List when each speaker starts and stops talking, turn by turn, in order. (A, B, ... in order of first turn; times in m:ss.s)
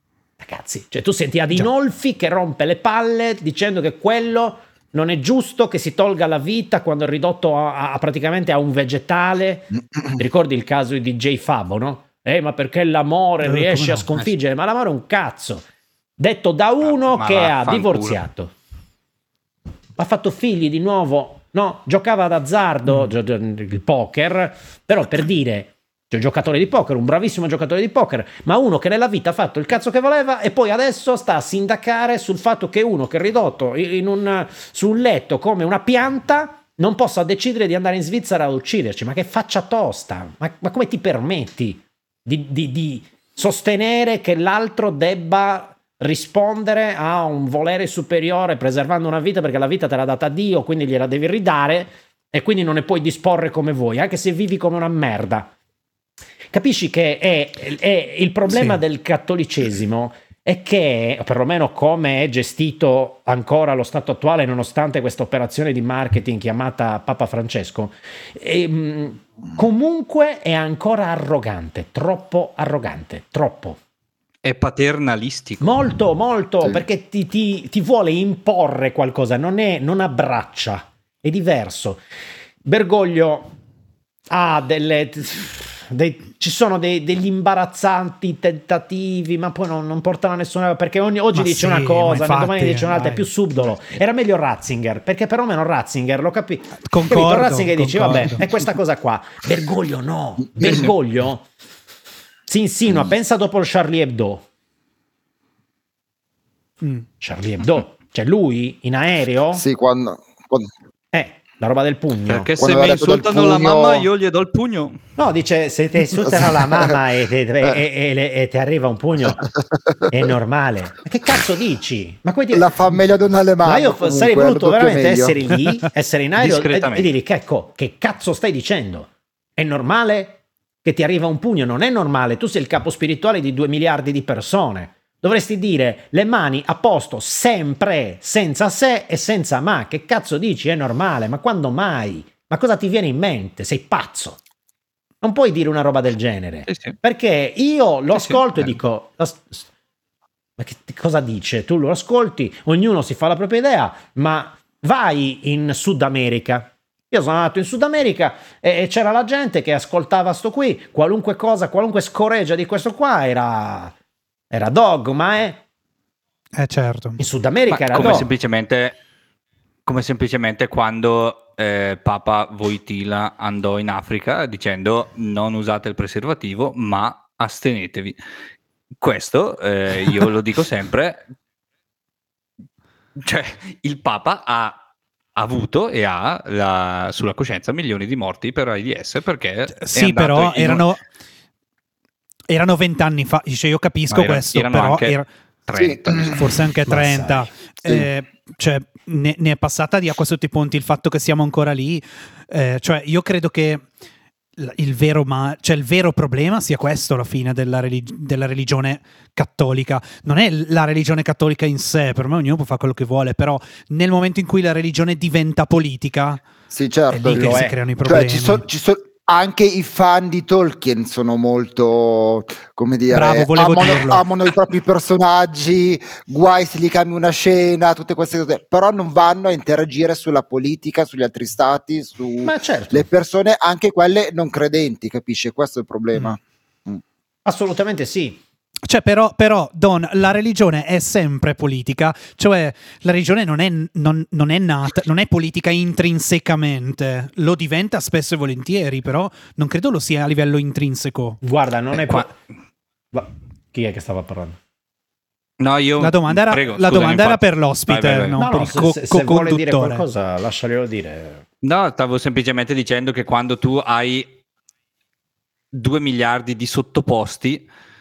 0:00.4-0:15.6 A
0:13.4-0:14.1 B
0:16.2-0:18.5 A
0:17.0-0:18.2 C
0:20.0-0:55.5 A
0:56.5-1:13.8 A
0:58.5-0:58.8 B
1:14.4-1:15.8 C
1:15.6-1:22.0 A
1:22.6-1:23.5 A
1:24.3-1:41.5 A
1:31.3-1:33.3 B
1:36.8-1:38.4 B
1:42.5-1:44.5 A
1:47.2-1:49.6 A
1:49.5-1:50.7 D
1:51.1-1:52.5 A
1:52.3-1:55.0 C
1:52.6-1:54.1 D
1:55.2-1:59.4 A
1:56.3-1:56.9 D
2:00.1-2:02.7 A
2:02.5-2:05.4 D
2:03.6-2:24.4 A
2:06.4-2:07.1 C
2:25.2-2:29.7 A
2:26.7-2:27.0 C
2:28.2-2:28.4 C
2:30.6-2:43.9 A
2:44.5-2:45.6 A
2:46.6-2:47.2 B
2:47.2-2:48.3 A
2:47.7-2:49.0 C
2:49.9-2:58.2 C
2:59.0-3:01.2 C
3:03.2-3:04.8 C
3:05.4-3:10.9 C
3:09.8-3:11.0 B
3:12.5-3:15.3 B
3:14.1-3:16.4 C
3:15.8-3:16.5 D
3:16.3-3:23.9 B
3:16.9-3:17.5 A
3:24.6-3:36.4 B
3:36.7-3:57.0 D
3:37.1-3:38.6 B
3:37.3-3:37.8 A
3:43.1-3:44.3 B
3:52.4-3:53.1 A
3:57.4-3:58.4 A
3:58.9-4:11.4 B
4:11.4-4:12.3 A
4:13.1-4:14.6 A
4:15.6-4:18.4 C
4:16.0-4:20.0 B
4:18.4-4:21.4 A
4:21.6-4:24.3 C
4:25.7-4:27.7 C